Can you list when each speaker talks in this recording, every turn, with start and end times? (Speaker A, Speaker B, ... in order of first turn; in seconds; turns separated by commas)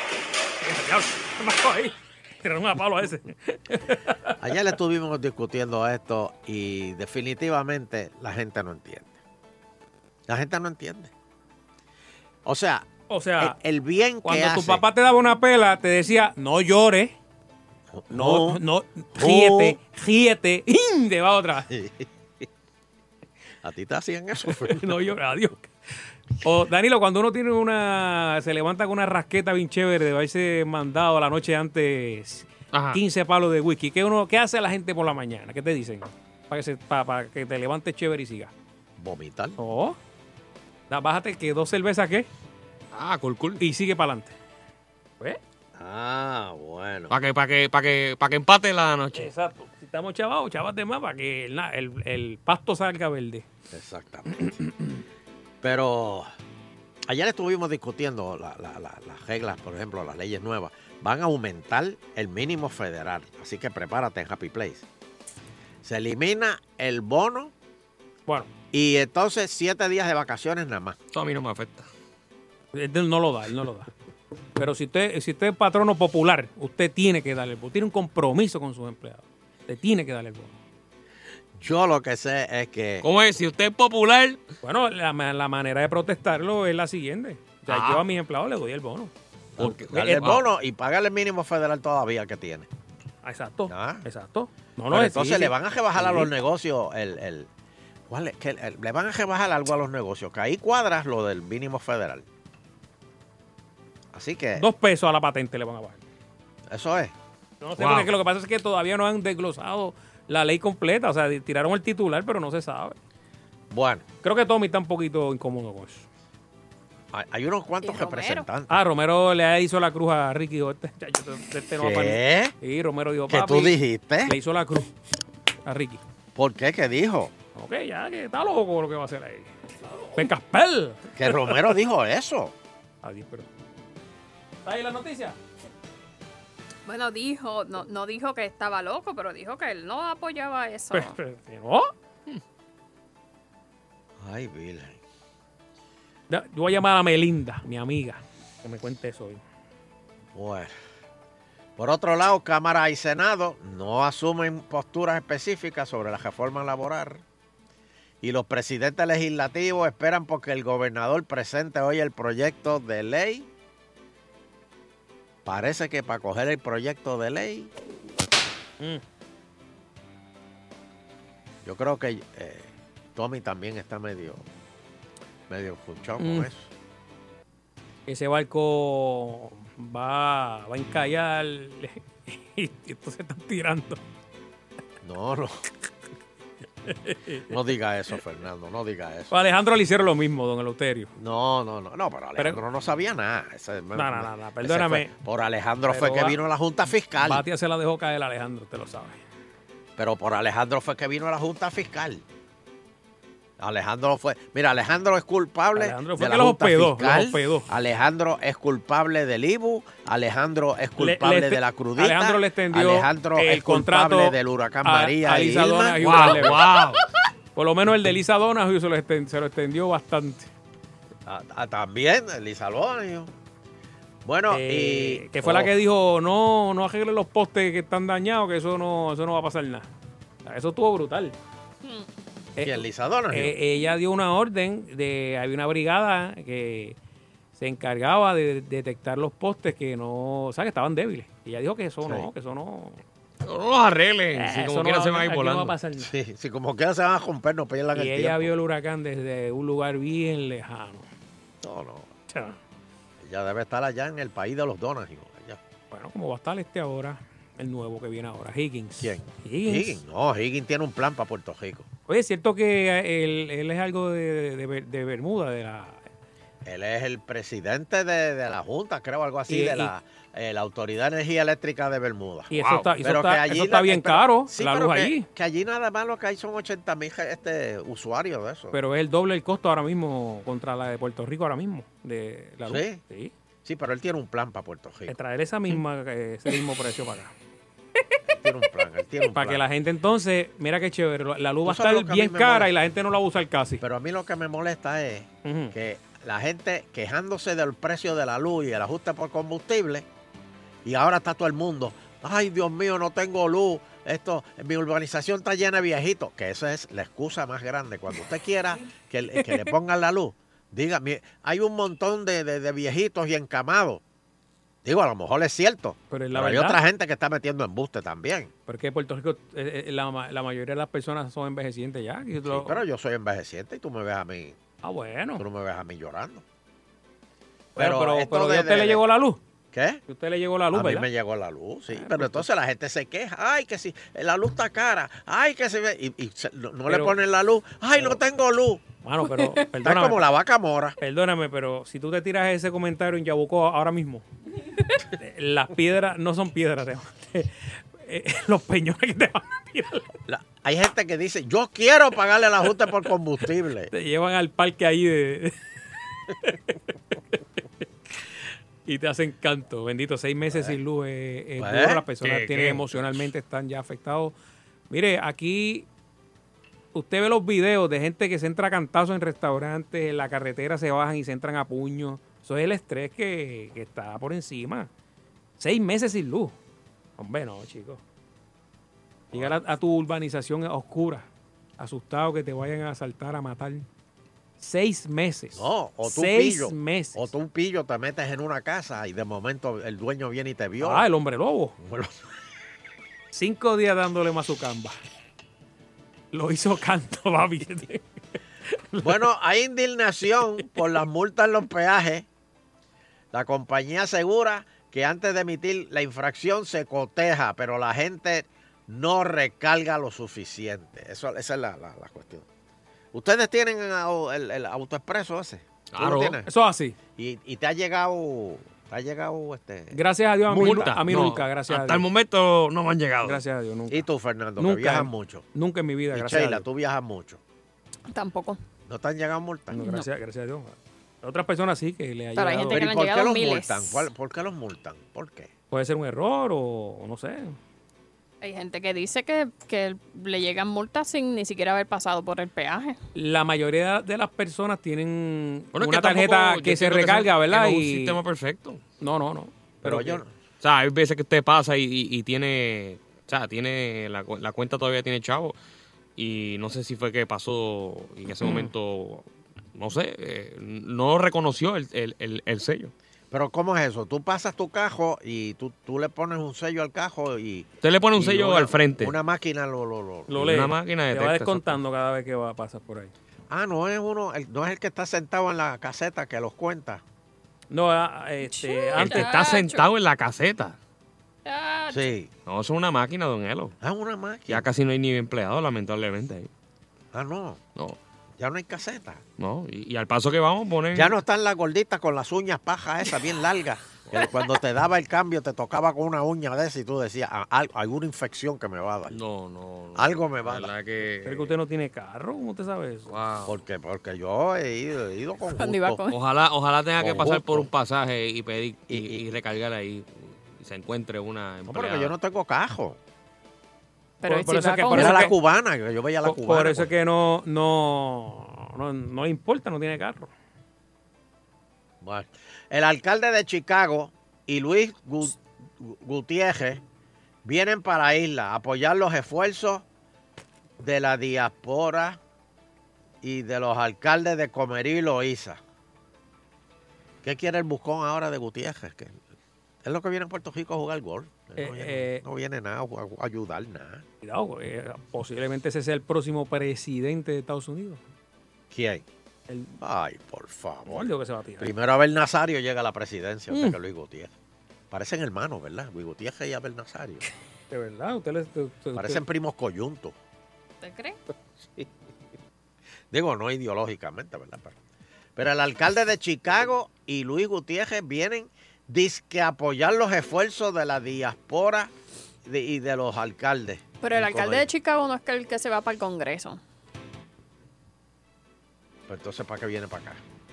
Speaker A: 0.6-4.3, Speaker B: 4.4-9.2, Speaker B: 10.3-11.1, Speaker B: 12.4-12.9, Speaker A: 13.1-13.6, Speaker B: 13.4-14.8, Speaker A: 14.2-17.1, Speaker B: 17.9-18.6, Speaker A: 18.1-21.7, Speaker B: 19.1-19.8, Speaker B: 21.7-22.1, Speaker B: 23.6-24.9, Speaker A: 24.7-25.7, Speaker A: 26.4-38.5, Speaker C: 32.7-33.0, Speaker B: 39.0-39.6, Speaker A: 39.6-40.0, Speaker A: 40.9-42.3, Speaker C: 42.9-43.6, Speaker A: 43.6-44.3, Speaker B: 45.8-47.1, Speaker C: 47.1-49.3, Speaker A: 49.1-53.5, Speaker B: 53.7-54.6, Speaker B: 55.6-56.3, Speaker B: 57.0-64.8, Speaker B: 65.8-67.5, Speaker A: 68.3-68.5, Speaker B: 68.7-71.0, Speaker C: 71.1-71.9, Speaker A: 72.7-73.9, Speaker A: 74.5-80.6, Speaker B: 81.5-83.0, Speaker C: 83.0-84.4, Speaker A: 84.6-89.1, Speaker C: 87.7-88.0, Speaker B: 89.6-92.7, Speaker C: 89.6-90.4, Speaker A: 89.9-90.3, Speaker A: 93.2-96.3, Speaker B: 93.7-94.0, Speaker B: 94.9-97.5, Speaker B: 98.1-102.2, Speaker B: 104.1-104.6, Speaker A: 104.6-106.0, Speaker B: 106.7-107.1, Speaker A: 107.6-113.0, Speaker C: 107.8-108.1, Speaker B: 113.7-114.0, Speaker A: 114.2-116.1, Speaker B: 117.1-118.8, Speaker D: 117.8-118.5, Speaker A: 118.7-124.9, Speaker B: 121.8-122.5, Speaker B: 123.3-124.3, Speaker A: 125.6-126.0, Speaker B: 126.3-127.3, Speaker A: 127.5-131.6, Speaker B: 131.2-132.5, Speaker A: 133.0-133.5, Speaker A: 134.6-135.4, Speaker D: 136.8-141.1, Speaker A: 140.9-141.9, Speaker B: 144.2-145.0, Speaker A: 146.3-149.4, Speaker B: 150.3-150.7, Speaker B: 151.8-157.2, Speaker B: 158.2-163.5, Speaker B: 165.4-167.7, Speaker B: 171.6-174.4, Speaker B: 175.5-176.7, Speaker A: 176.2-176.5, Speaker A: 178.1-184.0, Speaker B: 185.0-185.6, Speaker A: 186.8-187.5, Speaker B: 187.5-189.3, Speaker A: 189.3-191.1, Speaker B: 191.2-197.4, Speaker A: 192.4-192.6, Speaker A: 193.9-195.1, Speaker A: 195.9-196.4, Speaker A: 197.2-199.2, Speaker B: 200.0-202.2, Speaker B: 203.6-216.0, Speaker A: 205.7-207.7, Speaker A: 211.0-216.6, Speaker C: 216.0-217.0, Speaker A: 217.6-220.5, Speaker B: 221.2-223.3, Speaker B: 224.2-225.7, Speaker A: 224.5-229.9, Speaker A: 230.4-231.3, Speaker A: 232.6-237.0, Speaker B: 232.6-233.5, Speaker A: 237.6-243.0, Speaker C: 243.4-245.7, Speaker A: 244.3-246.1, Speaker B: 246.0-248.5, Speaker A: 247.9-251.1, Speaker B: 251.6-252.1, Speaker A: 252.3-252.6, Speaker B: 253.2-255.6, Speaker A: 255.9-260.0, Speaker B: 259.0-261.9, Speaker A: 262.1-266.0, Speaker B: 266.6-278.8, Speaker A: 269.5-269.9, Speaker A: 272.5-275.3, Speaker C: 272.5-272.9, Speaker A: 278.7-283.3, Speaker B: 282.6-283.0, Speaker B: 283.6-285.2, Speaker A: 285.1-287.3, Speaker B: 288.2-289.6, Speaker A: 289.3-293.8, Speaker B: 291.6-292.7, Speaker B: 293.8-300.1, Speaker A: 295.4-295.7, Speaker B: 300.8-314.0, Speaker B: 314.8-318.5, Speaker A: 316.1-316.8, Speaker A: 318.7-322.8, Speaker B: 322.4-324.6, Speaker A: 324.8-325.4, Speaker B: 325.4-326.4, Speaker B: 327.8-329.0, Speaker A: 327.8-329.4, Speaker B: 329.7-330.0, Speaker A: 330.1-331.1, Speaker B: 330.7-338.8, Speaker A: 331.9-332.5, Speaker A: 336.9-337.1, Speaker A: 339.0-340.2, Speaker B: 339.8-341.0, Speaker A: 341.0-344.2, Speaker A: 345.0-350.1, Speaker B: 350.3-353.9, Speaker A: 353.9-355.5, Speaker A: 356.3-357.4, Speaker A: 358.9-364.3, Speaker B: 360.5-360.8, Speaker B: 361.6-362.0, Speaker C: 362.2-363.2, Speaker A: 364.9-365.9, Speaker A: 366.9-374.9, Speaker A: 375.6-376.6, Speaker A: 377.2-378.0, Speaker A: 379.3-381.3, Speaker A: 381.8-383.8, Speaker A: 384.6-387.3, Speaker B: 385.5-391.1, Speaker A: 390.8-391.8, Speaker B: 391.8-392.1, Speaker A: 393.3-395.0, Speaker A: 396.3-398.0, Speaker A: 398.7-399.2, Speaker B: 399.0-402.3, Speaker B: 403.3-412.5, Speaker B: 413.1-416.5, Speaker C: 415.9-416.4, Speaker A: 416.4-417.0, Speaker B: 417.2-420.0, Speaker A: 419.9-422.0, Speaker B: 420.5-420.9, Speaker C: 420.5-423.4, Speaker A: 423.2-424.1, Speaker B: 423.9-425.4, Speaker A: 424.6-426.7, Speaker B: 426.1-427.4, Speaker D: 428.1-428.6, Speaker B: 428.9-429.8, Speaker A: 429.7-432.9, Speaker D: 429.7-430.1, Speaker D: 432.4-434.0, Speaker B: 432.7-435.5, Speaker A: 435.7-437.6, Speaker D: 438.4-443.0, Speaker A: 443.1-448.2, Speaker C: 445.7-448.8, Speaker A: 449.0-450.2, Speaker B: 449.8-450.3, Speaker C: 450.6-455.6, Speaker C: 456.2-462.9, Speaker B: 463.3-470.3, Speaker C: 467.8-469.2, Speaker A: 470.3-473.1, Speaker C: 470.3-471.8, Speaker B: 473.5-477.0, Speaker A: 477.7-479.4, Speaker D: 478.4-479.9, Speaker C: 479.0-480.8, Speaker D: 481.4-482.1, Speaker B: 481.9-482.3, Speaker C: 482.4-483.8, Speaker B: 483.8-484.7, Speaker C: 484.5-486.5, Speaker B: 487.1-487.6, Speaker B: 488.4-489.2, Speaker C: 489.4-491.1, Speaker B: 490.9-499.2, Speaker C: 499.1-501.5, Speaker B: 499.9-500.7, Speaker A: 501.2-503.1, Speaker C: 503.1-503.6, Speaker B: 503.4-506.0, Speaker D: 505.5-506.1, Speaker C: 506.1-512.1, Speaker B: 507.0-507.7, Speaker B: 508.9-509.2, Speaker B: 511.7-513.0, Speaker D: 514.2-515.3, Speaker A: 514.2-515.3, Speaker B: 514.9-516.9, Speaker A: 516.2-520.3, Speaker B: 522.0-526.8, Speaker B: 527.4-529.8, Speaker B: 530.8-532.2, Speaker B: 533.2-535.6, Speaker B: 537.2-539.2, Speaker B: 539.8-544.0, Speaker A: 541.6-542.2, Speaker A: 544.2-548.0, Speaker B: 548.7-549.0, Speaker A: 549.5-549.7, Speaker B: 549.8-554.3, Speaker A: 550.9-551.7, Speaker A: 553.5-553.8, Speaker B: 554.9-557.2, Speaker A: 557.7-559.2, Speaker B: 559.0-560.1, Speaker D: 560.8-561.2, Speaker B: 563.1-564.8, Speaker B: 565.4-571.9, Speaker B: 572.4-574.7, Speaker D: 574.0-576.6, Speaker B: 579.1-580.2